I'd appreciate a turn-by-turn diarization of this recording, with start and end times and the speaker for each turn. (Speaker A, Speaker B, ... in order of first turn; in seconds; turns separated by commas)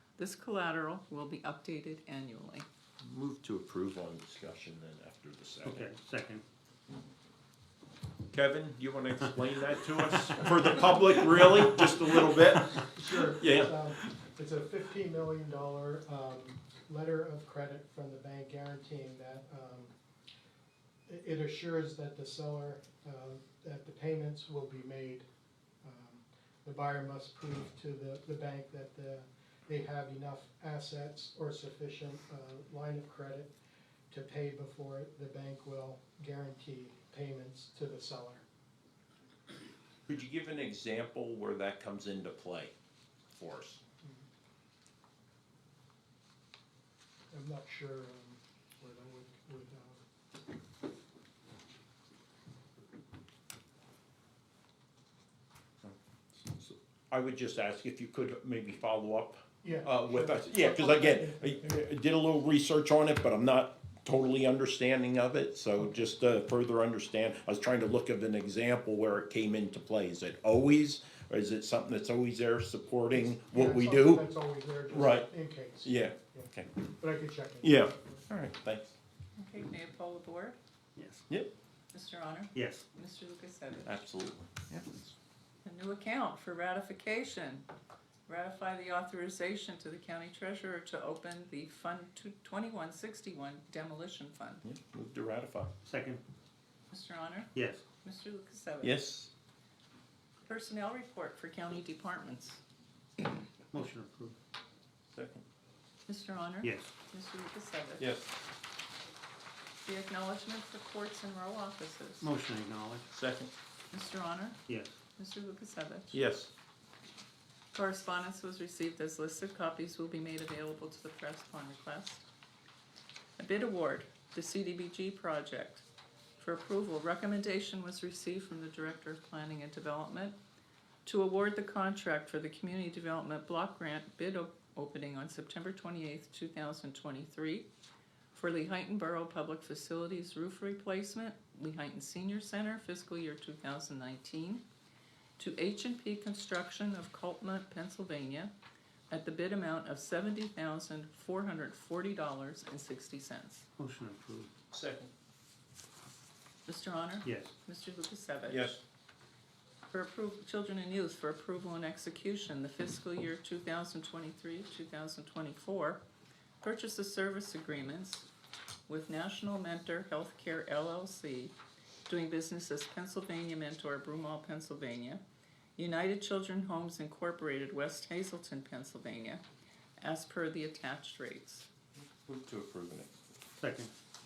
Speaker A: 0.2-2.7, Speaker B: 3.0-5.9, Speaker C: 5.7-6.4, Speaker B: 8.3-14.2, Speaker D: 12.9-19.9, Speaker D: 21.1-25.2, Speaker D: 25.8-33.5, Speaker D: 34.1-38.4, Speaker B: 40.1-42.8, Speaker B: 43.3-43.8, Speaker D: 47.3-50.0, Speaker B: 55.8-74.3, Speaker D: 59.6-61.8, Speaker D: 73.1-78.2, Speaker B: 74.9-75.3, Speaker B: 75.8-76.8, Speaker B: 77.6-79.0, Speaker A: 79.4-80.6, Speaker C: 81.0-81.3, Speaker A: 81.9-84.0, Speaker C: 82.5-82.8, Speaker B: 83.8-85.1, Speaker A: 85.6-87.7, Speaker A: 88.3-94.7, Speaker B: 94.6-95.7, Speaker C: 95.8-96.2, Speaker A: 96.9-99.1, Speaker C: 97.5-97.8, Speaker B: 98.8-99.3, Speaker A: 100.5-102.6, Speaker C: 103.7-104.4, Speaker B: 105.1-105.5, Speaker A: 106.1-108.1, Speaker C: 106.6-106.9, Speaker B: 108.0-108.4, Speaker A: 109.8-112.3, Speaker C: 112.2-113.1, Speaker B: 113.1-113.5, Speaker A: 113.9-114.6, Speaker C: 114.7-115.0, Speaker A: 115.2-116.2, Speaker B: 116.1-116.5, Speaker A: 117.7-122.2, Speaker A: 123.4-125.9, Speaker A: 126.4-130.4, Speaker A: 131.1-137.7, Speaker A: 138.3-144.6, Speaker A: 145.4-148.5, Speaker A: 149.1-153.7, Speaker C: 153.8-154.5, Speaker B: 154.7-155.1, Speaker A: 156.7-158.8, Speaker C: 157.2-157.5, Speaker B: 158.5-158.8, Speaker A: 159.9-166.0, Speaker A: 166.6-168.3, Speaker A: 168.9-171.6, Speaker A: 172.1-175.2, Speaker A: 175.8-179.4, Speaker A: 180.0-181.7, Speaker B: 182.0-183.3, Speaker C: 183.6-183.9